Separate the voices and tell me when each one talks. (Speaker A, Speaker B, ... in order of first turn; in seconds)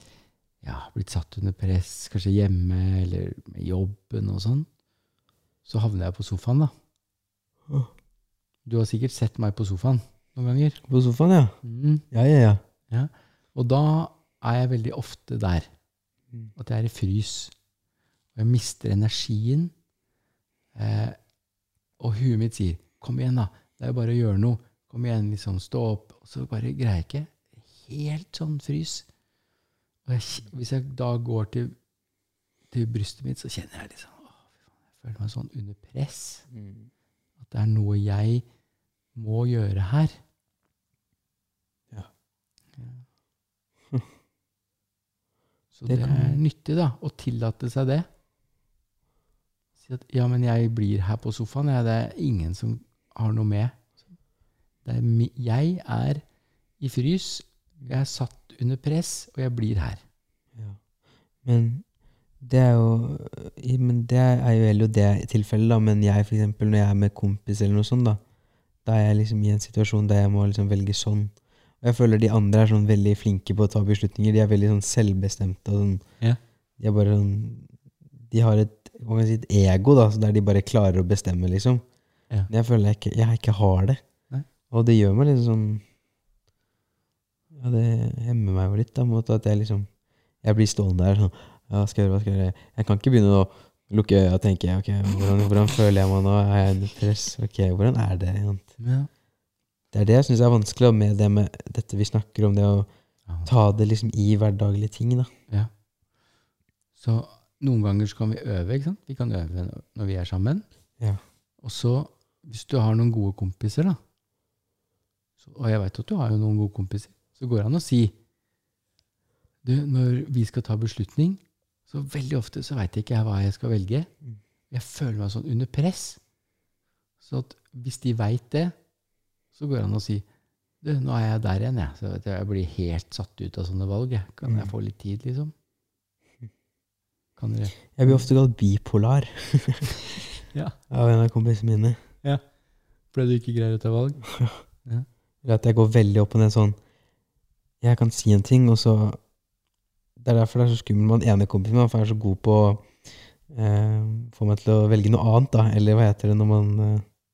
Speaker A: 0.6-4.7, 5.7-6.7, 8.7-10.8, 11.6-12.1, 12.9-15.7, 16.6-17.5, 18.4-19.7, 20.8-21.2, 22.0-29.1, 30.1-31.8, 32.7-36.5, 37.4-38.5, 39.1-40.2, 42.8-43.0, 45.7-48.1, 49.8-53.8, 54.9-56.2, 56.8-60.0, 98.8-99.1, 107.0-110.7, 111.6-114.0, 115.4-118.2, 119.7-124.1, 124.7-126.2, 127.2-128.8, 129.6-130.2, 130.8-135.5, 137.4-138.3, 140.5-140.8, 143.1-144.3
Speaker B: 10.9-11.6, 12.1-12.6, 36.5-36.9, 45.9-46.4, 61.4-61.8, 62.4-68.2, 68.8-76.0, 76.8-77.7, 78.2-81.8, 82.5-84.0, 84.7-85.8, 87.5-89.9, 90.4-98.7, 99.9-102.9, 103.5-105.3, 134.4-134.7, 137.9-139.9, 140.9-142.0, 144.3-144.6, 145.4-146.8, 147.8-149.2, 150.2-153.0, 153.5-157.1